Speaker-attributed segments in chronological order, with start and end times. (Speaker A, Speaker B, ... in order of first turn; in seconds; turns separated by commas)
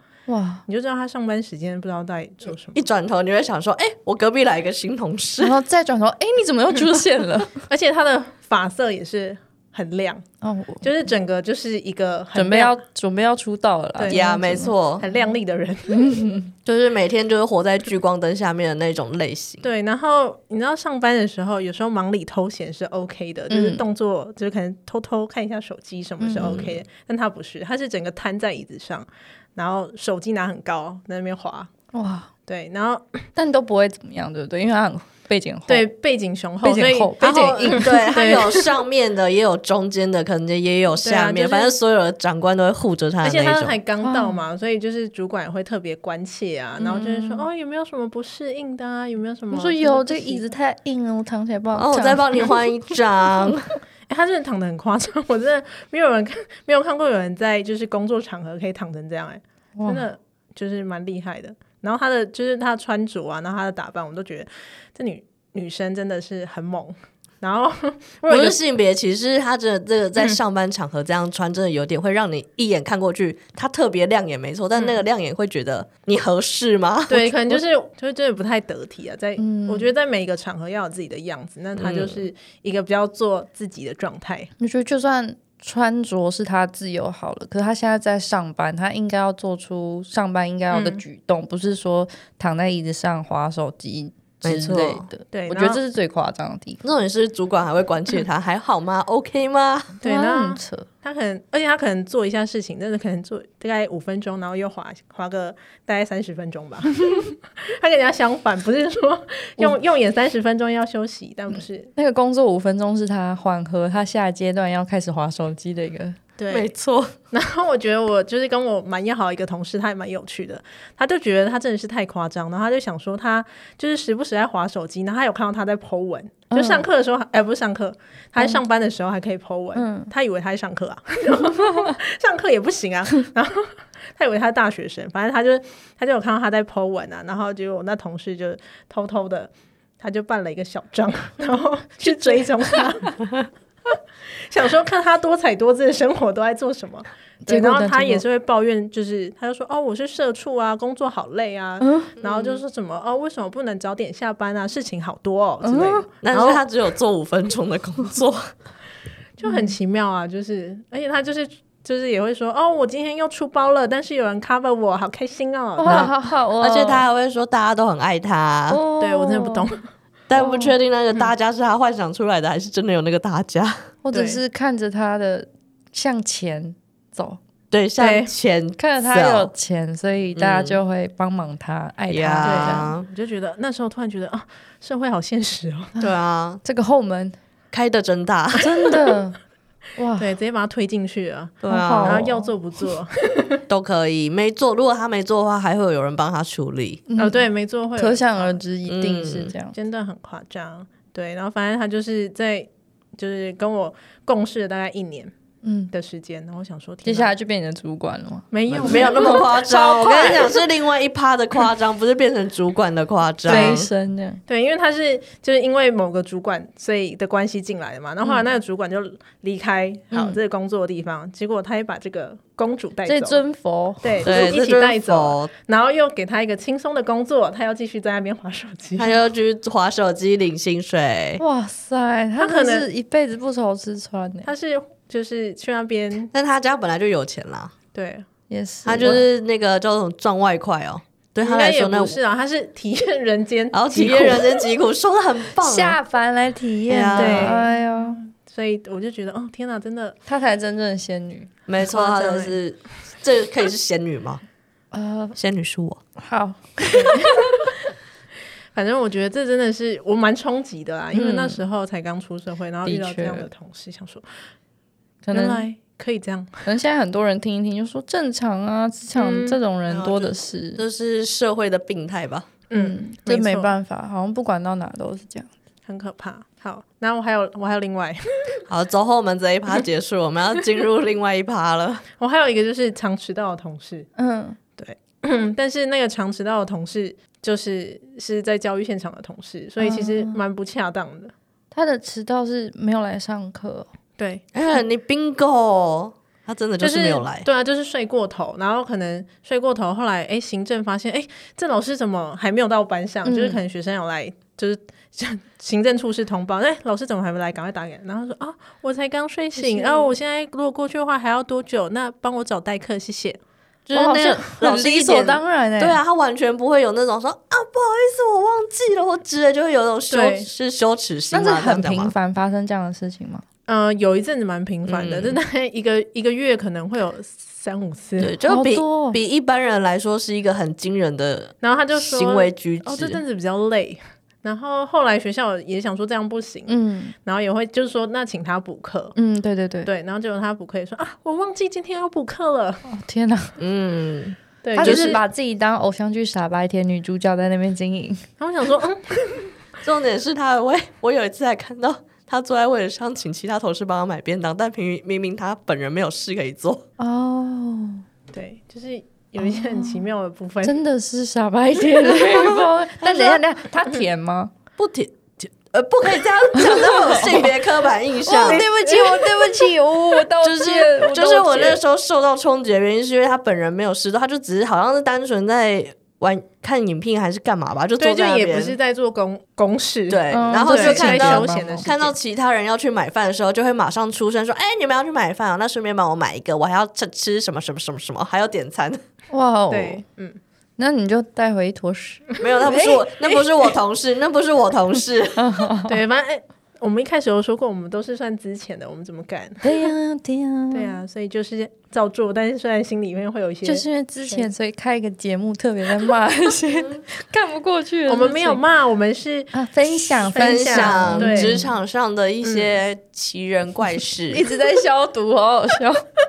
Speaker A: 0.3-0.6, Speaker B: 0.7-2.8, Speaker C: 2.7-5.6, Speaker A: 5.4-7.5, Speaker B: 7.7-10.2, Speaker A: 10.4-10.9, Speaker B: 10.8-12.8, Speaker A: 12.3-14.7, Speaker B: 14.0-14.4, Speaker C: 14.1-15.0, Speaker B: 15.0-16.1, Speaker A: 15.9-16.5, Speaker C: 16.6-19.7, Speaker B: 19.6-31.7, Speaker A: 23.5-23.8, Speaker A: 26.2-26.6, Speaker C: 26.4-26.8, Speaker A: 31.9-32.3, Speaker B: 32.5-33.2, Speaker A: 33.4-35.9, Speaker B: 35.7-38.7, Speaker A: 36.6-37.9, Speaker C: 37.2-43.8, Speaker B: 41.0-41.8, Speaker B: 43.2-50.5, Speaker A: 44.0-44.4, Speaker A: 46.8-47.5, Speaker A: 49.5-52.5, Speaker C: 51.8-53.7, Speaker B: 54.1-68.6, Speaker A: 59.8-60.1, Speaker C: 68.3-77.3, Speaker B: 74.8-75.0, Speaker B: 77.1-84.5, Speaker A: 79.4-79.9, Speaker C: 81.8-82.2, Speaker A: 84.6-96.8, Speaker B: 90.7-91.0, Speaker C: 94.4-95.1, Speaker B: 95.3-95.8, Speaker C: 96.8-100.0, Speaker A: 100.0-100.9, Speaker B: 100.0-111.9, Speaker A: 112.0-116.2, Speaker B: 116.4-116.7, Speaker C: 116.5-117.1, Speaker B: 117.3-143.2, Speaker A: 126.5-126.9, Speaker A: 129.8-130.1, Speaker A: 131.5-131.9, Speaker A: 142.0-142.8, Speaker B: 144.5-156.6, Speaker A: 147.5-148.2, Speaker A: 151.8-152.1, Speaker C: 152.2-152.6, Speaker A: 155.6-156.1, Speaker C: 156.2-158.5, Speaker B: 159.4-166.1, Speaker A: 159.4-159.7, Speaker A: 165.8-167.1, Speaker C: 165.8-168.8, Speaker A: 168.7-169.7, Speaker B: 169.0-169.9, Speaker C: 170.3-173.9, Speaker A: 170.4-170.8, Speaker A: 174.0-177.4, Speaker B: 174.1-174.4, Speaker C: 177.7-179.5, Speaker B: 178.0-178.3, Speaker A: 178.8-182.9, Speaker C: 180.4-180.8, Speaker C: 182.1-183.1, Speaker B: 182.4-186.0, Speaker C: 186.0-186.6, Speaker A: 186.6-187.4, Speaker C: 187.7-188.7, Speaker A: 188.6-189.4, Speaker A: 190.0-190.3, Speaker B: 190.2-193.6, Speaker C: 191.6-192.3, Speaker A: 191.7-192.4, Speaker C: 193.7-197.0, Speaker A: 197.1-197.5, Speaker B: 197.2-198.6, Speaker A: 198.0-199.7, Speaker C: 198.9-199.5, Speaker B: 199.7-205.3, Speaker A: 205.6-205.9, Speaker B: 205.9-207.3, Speaker A: 207.1-210.6, Speaker B: 208.5-210.5, Speaker C: 208.7-213.9, Speaker A: 213.5-214.4, Speaker B: 213.5-213.8, Speaker B: 214.5-223.4, Speaker A: 220.1-220.4, Speaker A: 223.1-224.3, Speaker B: 224.0-229.2, Speaker C: 224.2-225.5, Speaker C: 229.0-231.4, Speaker A: 231.4-234.5, Speaker B: 232.4-232.9, Speaker B: 234.4-236.3, Speaker C: 236.3-237.7, Speaker B: 237.9-238.2, Speaker A: 238.5-239.2, Speaker C: 238.8-242.2, Speaker B: 241.4-244.7, Speaker C: 243.7-246.0, Speaker A: 245.6-248.2, Speaker C: 246.9-247.6, Speaker B: 247.1-250.2, Speaker A: 250.3-251.5, Speaker C: 251.7-254.4, Speaker B: 251.8-252.6, Speaker A: 254.9-255.4, Speaker C: 255.3-256.0, Speaker A: 256.2-257.7, Speaker B: 256.9-257.7, Speaker B: 258.7-264.3, Speaker C: 261.1-261.6, Speaker A: 262.9-263.5, Speaker A: 265.2-265.7, Speaker B: 265.3-266.6, Speaker A: 266.6-270.8, Speaker B: 269.1-269.6, Speaker C: 269.9-272.5, Speaker B: 272.7-273.8, Speaker A: 272.8-275.5, Speaker B: 275.9-278.6, Speaker C: 278.7-282.0, Speaker B: 282.2-284.1, Speaker A: 284.2-284.6, Speaker B: 284.8-291.3, Speaker A: 289.8-290.4, Speaker A: 291.7-293.9, Speaker B: 294.2-294.4, Speaker C: 294.5-297.5, Speaker B: 296.8-313.4, Speaker A: 303.2-303.6, Speaker A: 309.6-310.1, Speaker C: 313.9-322.1, Speaker A: 313.9-316.0, Speaker B: 320.1-320.5, Speaker A: 321.3-323.4, Speaker B: 323.7-328.4, Speaker C: 324.9-325.4, Speaker C: 328.2-333.2, Speaker A: 328.5-329.2, Speaker B: 331.6-339.1, Speaker A: 336.7-337.1, Speaker A: 339.2-339.9, Speaker B: 339.9-342.9, Speaker A: 342.9-343.6, Speaker C: 343.6-345.2, Speaker B: 344.6-345.2, Speaker A: 344.8-348.2, Speaker B: 348.4-349.5, Speaker C: 349.8-356.9, Speaker A: 357.0-358.0, Speaker B: 358.3-360.8, Speaker A: 359.4-360.1, Speaker A: 360.6-364.5, Speaker C: 362.3-363.4, Speaker C: 364.8-368.6, Speaker A: 366.6-367.4, Speaker A: 368.2-371.8, Speaker B: 368.4-369.6, Speaker C: 370.4-378.8, Speaker B: 378.0-382.1, Speaker C: 380.1-389.0, Speaker A: 380.3-381.9, Speaker A: 389.3-390.0, Speaker B: 389.7-390.4, Speaker A: 390.8-393.1, Speaker C: 392.4-395.4, Speaker A: 395.4-396.0, Speaker B: 395.9-399.9, Speaker A: 399.6-401.0, Speaker B: 400.7-404.5, Speaker A: 403.6-408.6, Speaker B: 408.1-411.6, Speaker A: 409.5-411.7, Speaker C: 410.3-414.4, Speaker B: 412.4-412.8, Speaker A: 414.3-416.1